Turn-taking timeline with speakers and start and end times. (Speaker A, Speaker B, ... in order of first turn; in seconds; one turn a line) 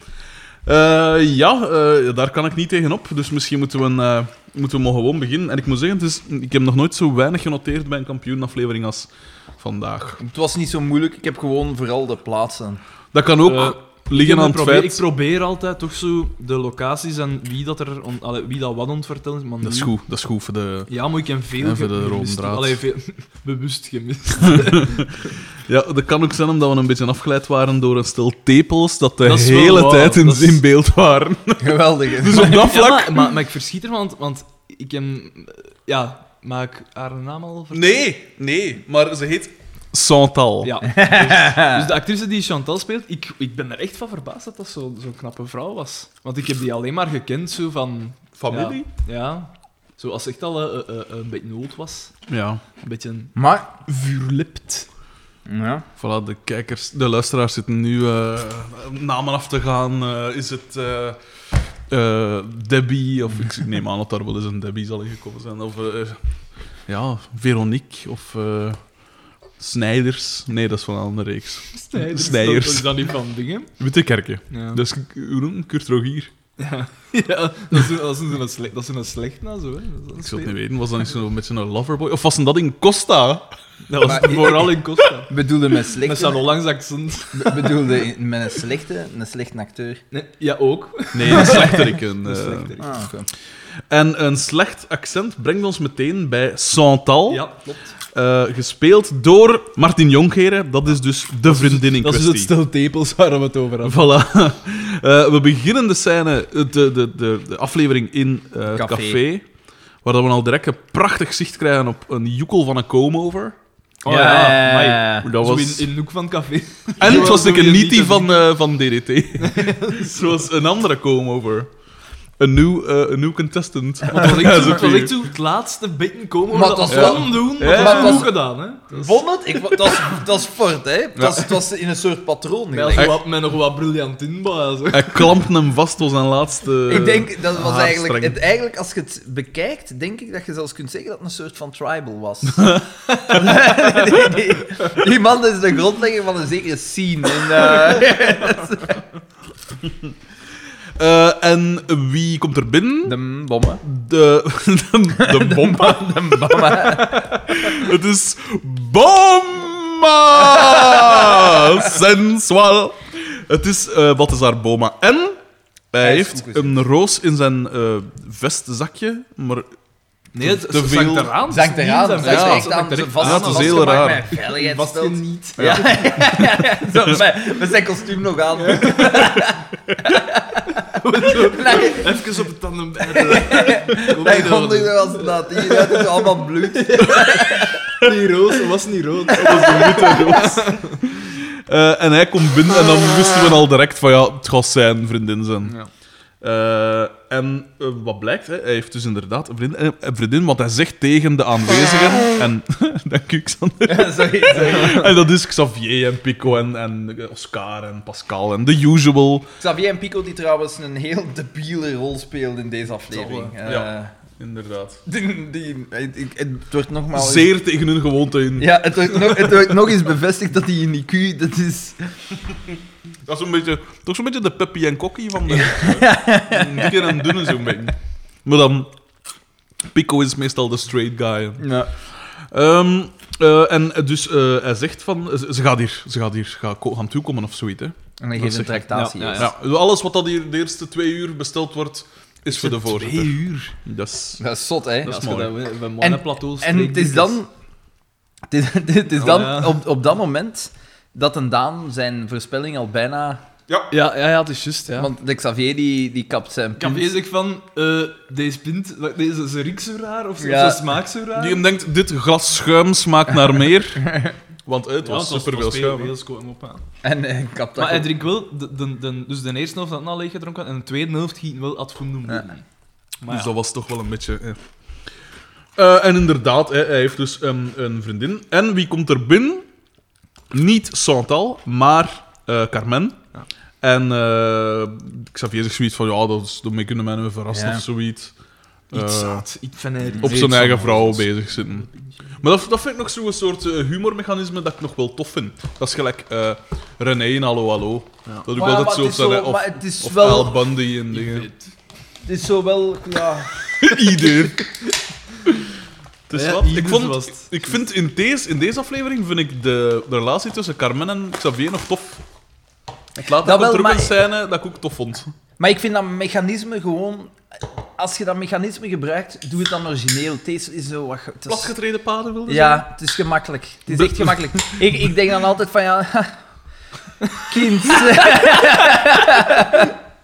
Speaker A: 0.7-10.2
Speaker B: 10.2-12.8
Speaker A: 13.1-15.1
Speaker C: 13.4-19.9
Speaker A: 19.6-20.9
Speaker C: 20.9-25.3
Speaker A: 21.6-22.8
Speaker A: 24.5-25.1
Speaker A: 25.7-33.3
Speaker C: 29.2-30.6
Speaker B: 31.6-32.8
Speaker C: 32.3-38.1
Speaker A: 37.7-40.7
Speaker C: 40.6-52.1
Speaker B: 40.9-41.9
Speaker A: 48.4-48.9
Speaker A: 52.3-52.6
Speaker C: 52.8-53.3
Speaker B: 53.4-53.7
Speaker C: 53.9-54.9
Speaker B: 55.5-55.9
Speaker A: 56.0-61.2
Speaker A: 61.9-66.2
Speaker A: 66.9-68.8
Speaker A: 69.6-73.1
Speaker C: 71.7-73.7
Speaker A: 73.8-76.3
Speaker C: 74.5-74.8
Speaker C: 76.6-80.5
Speaker A: 80.2-85.1
Speaker C: 83.9-85.3
Speaker B: 84.0-84.7
Speaker B: 85.3-86.4
Speaker C: 86.0-87.8
Speaker B: 87.3-90.0
Speaker C: 90.1-93.0
Speaker A: 91.1-92.7
Speaker B: 92.8-93.3
Speaker A: 93.9-97.5
Speaker C: 97.3-97.9
Speaker A: 98.1-102.5
Speaker C: 101.5-104.1
Speaker A: 103.8-109.4
Speaker B: 108.7-109.2
Speaker A: 110.0-113.5
Speaker C: 114.0-118.4
Speaker B: 114.0-115.3
Speaker A: 115.2-115.9
Speaker A: 117.0-121.7
Speaker C: 119.4-120.2
Speaker A: 122.4-125.2
Speaker C: 124.0-129.2
Speaker B: 126.5-128.3
Speaker A: 126.9-128.3
Speaker B: 128.9-133.1
Speaker A: 131.2-131.5
Speaker C: 132.7-135.3
Speaker A: 134.9-138.4
Speaker B: 136.9-149.0
Speaker A: 142.5-143.4
Speaker A: 151.0-153.2
Speaker B: 153.0-153.8
Speaker A: 153.8-165.4
Speaker B: 155.2-157.3
Speaker B: 160.5-161.8
Speaker A: 165.9-169.7
Speaker B: 166.0-166.8
Speaker C: 170.3-176.0
Speaker A: 170.4-171.3
Speaker B: 171.5-180.8
Speaker A: 172.2-174.3
Speaker A: 175.6-176.4
Speaker C: 178.6-179.3
Speaker C: 180.8-191.0
Speaker B: 181.3-182.1
Speaker B: 183.1-187.9
Speaker A: 189.3-195.8
Speaker A: 196.4-209.5
Speaker B: 203.8-205.2
Speaker B: 209.6-214.1
Speaker C: 213.1-213.5
Speaker A: 213.6-215.0
Speaker B: 215.1-217.5
Speaker A: 217.1-219.5
Speaker B: 218.6-222.1
Speaker A: 223.3-228.9
Speaker B: 225.5-227.8
Speaker A: 229.9-238.8
Speaker B: 231.6-231.9
Speaker B: 238.2-239.5
Speaker C: 238.9-239.5
Speaker A: 239.4-244.4
Speaker C: 242.5-243.8
Speaker B: 244.4-245.2
Speaker A: 245.0-245.6
Speaker C: 245.1-247.4
Speaker B: 246.0-247.5
Speaker B: 248.5-253.4
Speaker C: 249.2-249.8
Speaker C: 253.9-255.1
Speaker B: 254.9-257.1
Speaker C: 256.8-261.6
Speaker B: 260.4-260.8
Speaker A: 261.4-266.1
Speaker B: 264.1-264.3
Speaker C: 265.0-266.8
Speaker B: 267.0-268.1
Speaker C: 267.8-272.6
Speaker C: 273.2-273.5
Speaker A: 273.3-274.6
Speaker A: 275.8-279.6
Speaker A: 280.5-283.2
Speaker A: 283.8-288.3
Speaker B: 287.5-287.8
Speaker A: 288.9-289.4
Speaker C: 288.9-292.3
Speaker B: 290.1-290.5
Speaker A: 290.2-301.5
Speaker B: 298.5-300.7
Speaker C: 301.1-301.7
Speaker B: 302.2-303.5
Speaker A: 303.8-304.7
Speaker A: 306.3-312.2
Speaker C: 306.3-307.5
Speaker A: 313.2-315.4
Speaker B: 313.4-314.1
Speaker B: 315.6-321.7
Speaker A: 321.5-322.9
Speaker B: 322.5-326.4
Speaker A: 323.9-324.8
Speaker B: 327.4-329.9